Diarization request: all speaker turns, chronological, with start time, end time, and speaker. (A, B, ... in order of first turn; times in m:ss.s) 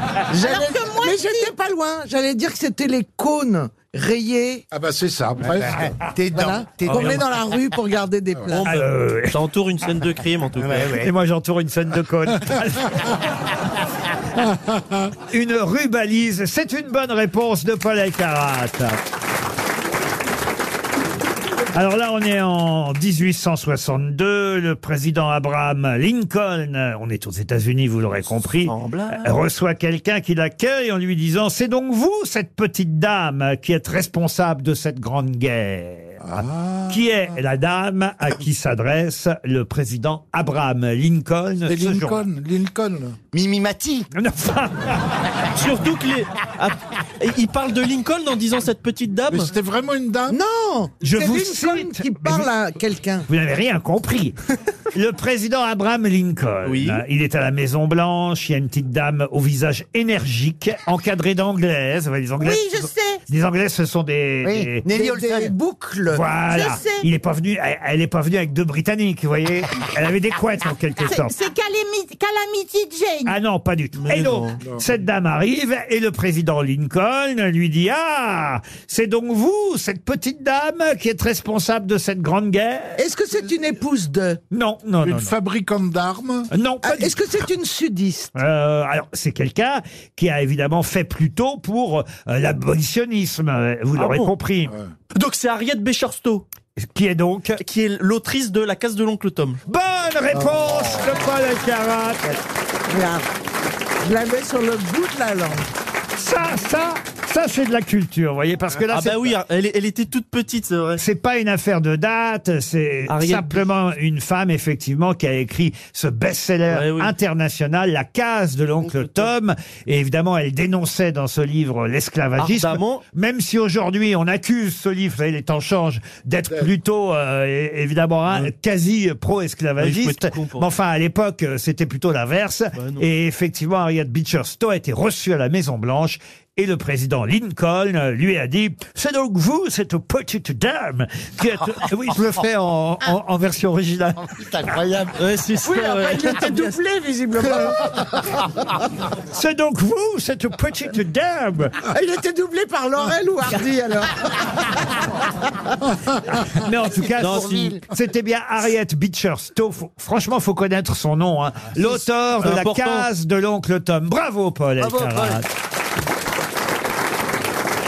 0:00.3-0:04.6 A
0:00.4-0:01.5 B
0:04.7-0:06.0 C
0:05.4-0:07.3 D
0:06.3-0:08.6 A
0:06.9-0:07.2 E
0:08.5-0:11.0 E
0:08.7-0:09.4 F
0:10.6-0:11.1 D
0:11.0-0:13.1 F
0:14.8-0:15.0 C
0:15.3-0:19.0 F
0:21.7-0:42.2 F
0:28.6-0:29.3 E
0:36.2-0:37.0 C
0:41.7-0:43.2 C
0:43.3-0:44.1 D
0:44.1-0:45.2 F
0:45.6-0:49.5 E
0:49.3-0:50.4 C
0:50.3-0:53.3 A
0:51.0-0:52.5 F
0:53.3-0:54.4 F
0:54.9-1:02.8 F
0:56.6-0:57.0 E
1:02.4-1:03.2 B
1:03.3-1:04.8 F
1:04.4-1:05.5 D
1:04.9-1:06.2 A
1:06.1-1:11.3 F
1:06.5-1:07.1 B
1:11.1-1:13.4 B
1:13.3-1:23.0 F
1:14.0-1:14.6 E
1:14.6-1:14.9 C
1:23.0-1:24.4 A
1:24.5-1:25.3 F
1:25.0-1:26.5 C
1:26.5-1:27.2 F
1:26.8-1:28.3 A
1:28.4-1:34.7 F
1:34.0-1:34.3 E
1:35.1-1:36.4 E
1:36.8-1:37.6 F
1:37.6-1:39.6 E
1:39.7-1:42.3 F
1:42.9-1:43.3 A
1:44.0-1:45.7 A
1:46.2-1:49.4 F
1:48.9-1:51.0 E
1:51.0-2:24.2 F
1:53.1-1:53.7 E
1:56.7-1:57.1 E
1:58.8-1:59.3 E
2:02.4-2:03.0 E
2:09.8-2:10.7 E
2:12.8-2:13.0 E
2:24.4-2:25.1 D
2:25.2-2:26.8 E
2:25.6-2:28.4 A
2:29.3-2:31.8 F
2:31.9-2:34.2 A
2:36.6-2:45.5 F
2:36.8-2:37.8 D
2:37.2-2:37.7 E
2:42.4-2:43.1 E
2:44.8-2:45.4 D